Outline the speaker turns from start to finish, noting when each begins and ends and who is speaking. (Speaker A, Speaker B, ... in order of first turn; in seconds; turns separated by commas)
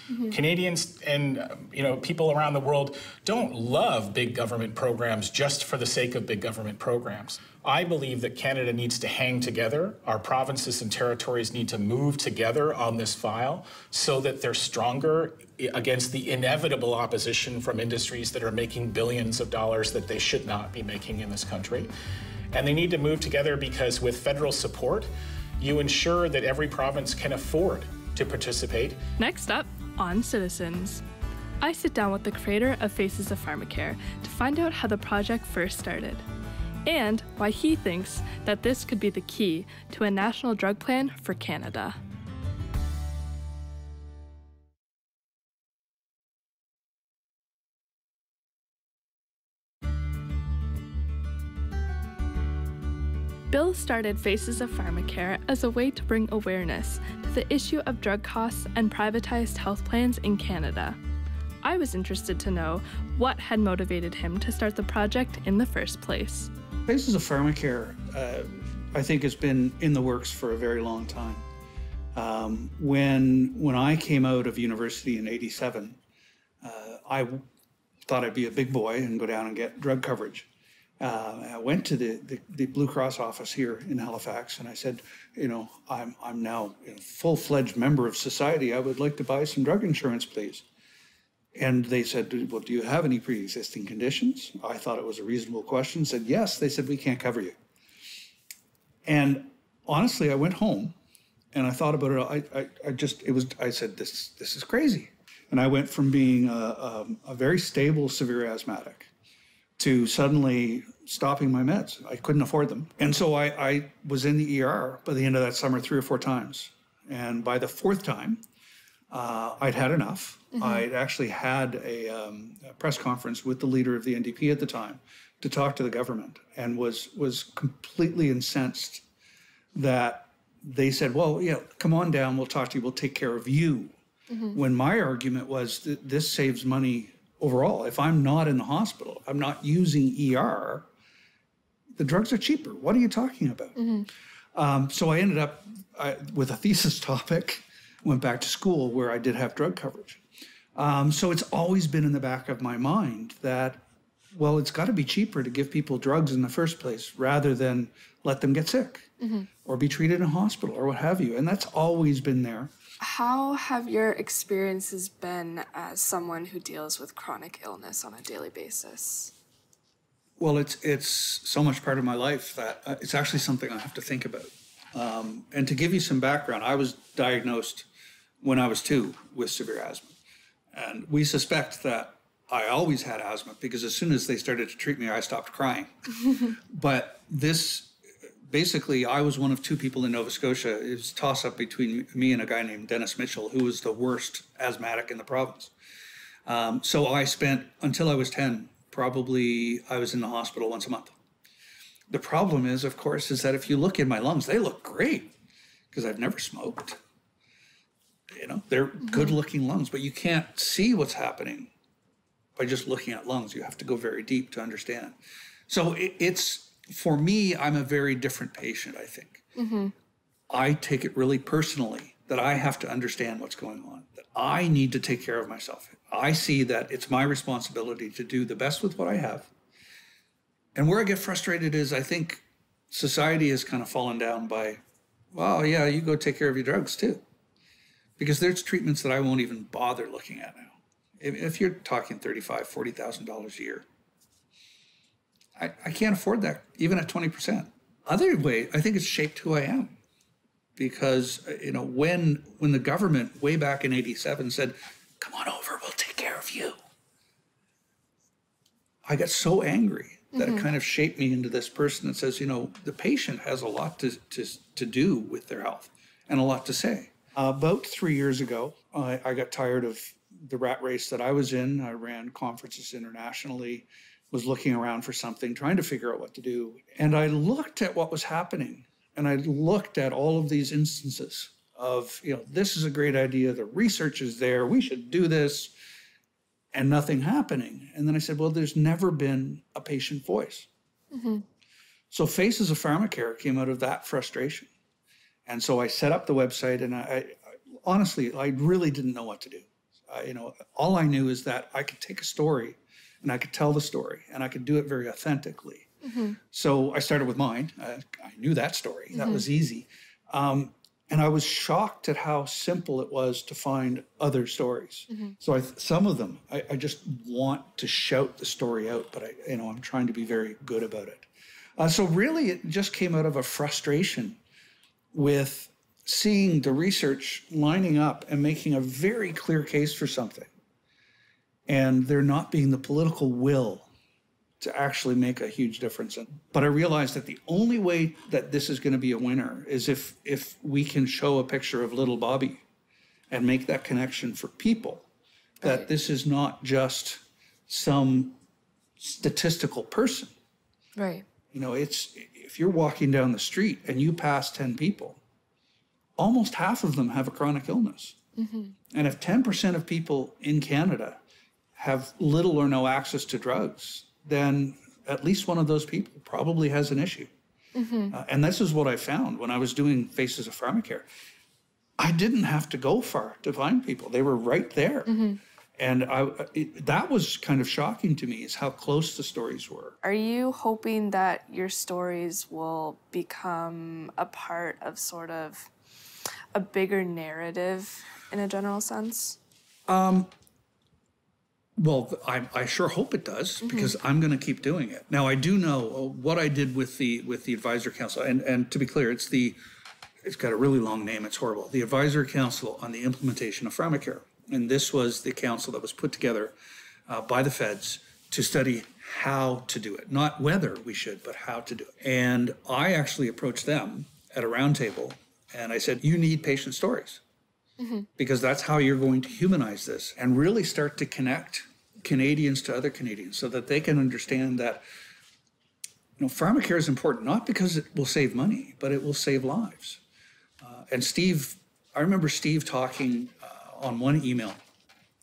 Speaker A: 0.1-0.3, Speaker B: 0.3-21.9, Speaker B: 22.5-29.0, Speaker C: 29.2-31.0, Speaker C: 31.6-36.2, Speaker C: 36.9-42.0, Speaker C: 53.5-61.0, Speaker C: 61.6-66.5, Speaker D: 66.9-71.4, Speaker D: 72.1-76.0, Speaker D: 76.6-77.4, Speaker D: 78.0-80.5, Speaker D: 81.0-90.6, Speaker D: 91.5-97.5, Speaker D: 99.0-101.0, Speaker D: 101.5-109.1, Speaker D: 109.8-118.4, Speaker D: 119.1-129.1, Speaker A: 120.6-120.8, Speaker D: 129.7-133.9, Speaker A: 134.3-134.6, Speaker D: 134.5-140.9, Speaker D: 141.9-143.8, Speaker A: 143.8-144.1, Speaker D: 144.5-150.2, Speaker D: 150.7-159.1, Speaker A: 159.2-159.5, Speaker D: 159.6-162.7, Speaker A: 163.0-169.3, Speaker D: 170.4-177.9, Speaker D: 178.4-180.1, Speaker D: 180.7-187.9, Speaker D: 188.5-195.7, Speaker D: 196.4-201.1, Speaker D: 202.1-205.3, Speaker D: 205.9-207.0, Speaker D: 208.3-211.7, Speaker D: 212.6-215.2, Speaker D: 215.7-219.4, Speaker A: 219.6-219.9, Speaker D: 220.5-229.5, Speaker D: 230.7-234.8, Speaker D: 235.3-237.2, Speaker D: 238.2-243.8, Speaker D: 245.6-250.0, Speaker D: 250.8-256.8, Speaker D: 259.0-285.7, Speaker A: 260.4-260.6, Speaker D: 286.7-290.7, Speaker A: 291.1-291.4, Speaker D: 292.1-294.7, Speaker D: 295.4-305.9, Speaker A: 306.0-306.4, Speaker D: 306.4-324.4, Speaker A: 309.1-309.4, Speaker D: 325.1-330.5, Speaker D: 331.7-333.9, Speaker D: 334.6-342.6, Speaker D: 343.3-345.1, Speaker D: 345.6-348.4, Speaker A: 345.6-345.9, Speaker D: 349.0-350.3, Speaker A: 350.9-351.3, Speaker D: 351.5-355.2, Speaker D: 356.2-358.2, Speaker A: 358.4-358.8, Speaker D: 358.9-361.2, Speaker D: 361.8-367.3, Speaker A: 367.7-368.1, Speaker D: 368.1-371.1, Speaker D: 372.0-375.1, Speaker A: 375.1-375.4, Speaker D: 375.8-380.0, Speaker A: 380.0-385.7, Speaker A: 386.5-389.4, Speaker D: 389.9-390.3, Speaker D: 391.8-399.6, Speaker A: 393.6-393.9, Speaker D: 400.2-406.5, Speaker D: 407.1-417.2, Speaker A: 417.8-418.1, Speaker D: 418.2-424.8, Speaker D: 426.2-430.0, Speaker D: 430.6-434.6